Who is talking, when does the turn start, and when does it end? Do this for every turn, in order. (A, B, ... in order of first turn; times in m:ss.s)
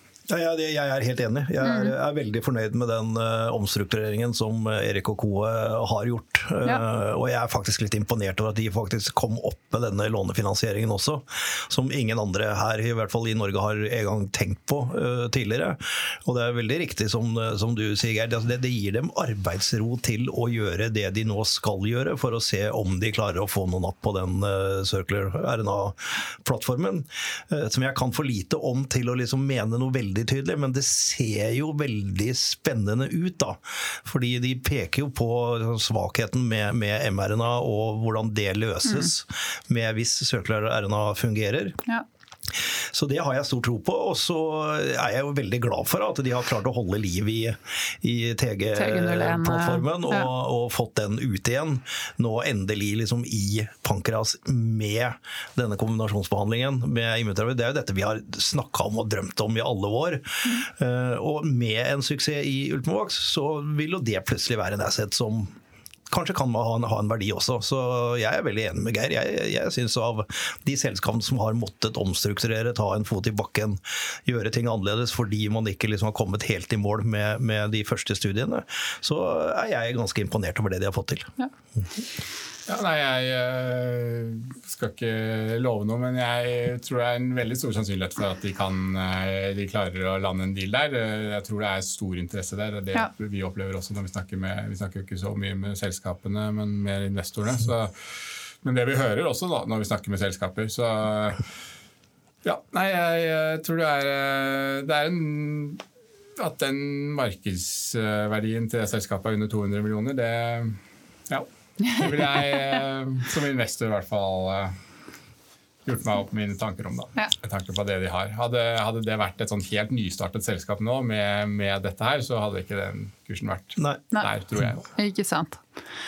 0:00.3-0:41.8 A
0:01.6-0:01.9 B
0:38.8-0:39.1 B
0:42.6-1:05.5 A
0:48.7-0:50.3 B
1:06.1-1:21.3 A
1:22.7-1:37.9 C
1:38.6-1:41.4 C
1:42.4-1:45.8 C
1:46.4-1:54.8 C
1:55.9-2:04.9 C
2:05.0-2:05.6 B